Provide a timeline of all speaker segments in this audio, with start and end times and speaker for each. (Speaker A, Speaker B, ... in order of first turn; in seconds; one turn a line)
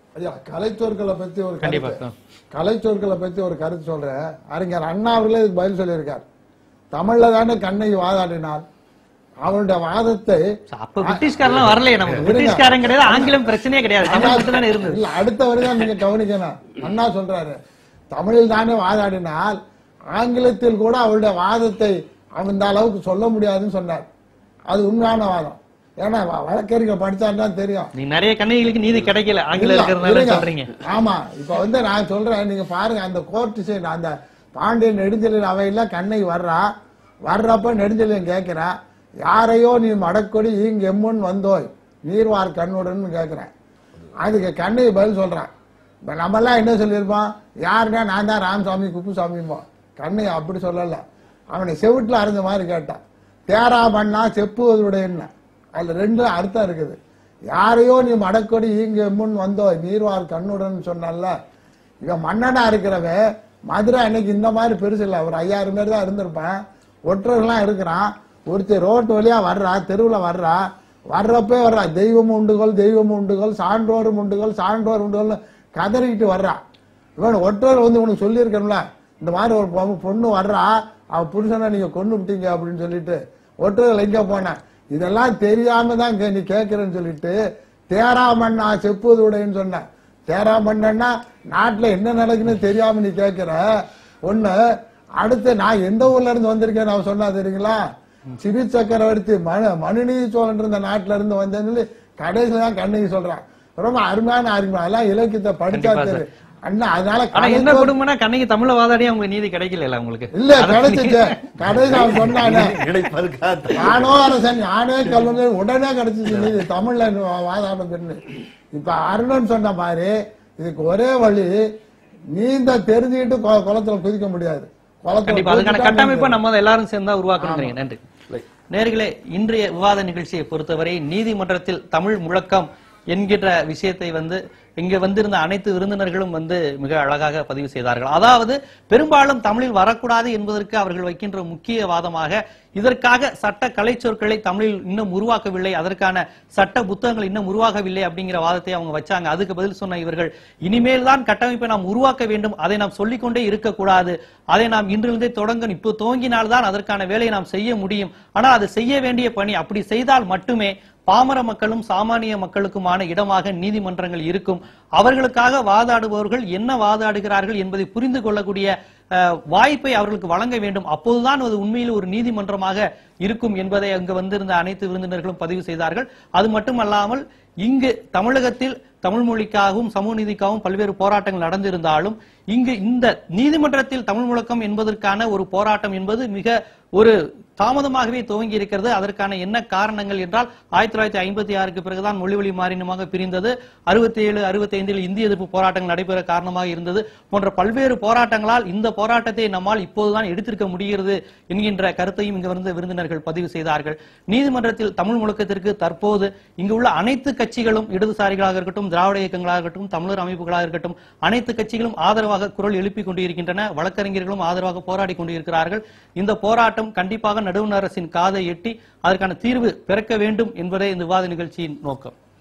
Speaker A: 0.2-2.0
Speaker B: 1.6-2.1
Speaker A: 2.5-6.2
Speaker A: 6.9-8.6
Speaker A: 9.4-10.4
Speaker B: 10.7-15.0
Speaker A: 11.0-11.5
Speaker A: 12.1-13.5
Speaker A: 14.0-17.6
Speaker A: 18.1-19.6
Speaker A: 20.1-24.1
Speaker A: 24.7-27.9
Speaker B: 28.0-30.7
Speaker A: 29.6-36.7
Speaker A: 37.3-43.5
Speaker A: 44.2-45.5
Speaker A: 46.1-57.0
Speaker A: 57.5-61.4
Speaker A: 62.0-76.6
Speaker A: 77.2-87.4
Speaker A: 87.9-93.7
Speaker A: 94.2-94.6
Speaker A: 95.2-107.9
Speaker B: 105.7-106.2
Speaker B: 107.3-111.2
Speaker A: 110.3-112.7
Speaker C: 112.0-114.3
Speaker A: 113.8-118.2
Speaker A: 118.7-121.7
Speaker A: 122.3-126.4
Speaker B: 125.3-128.0
Speaker B: 128.7-222.1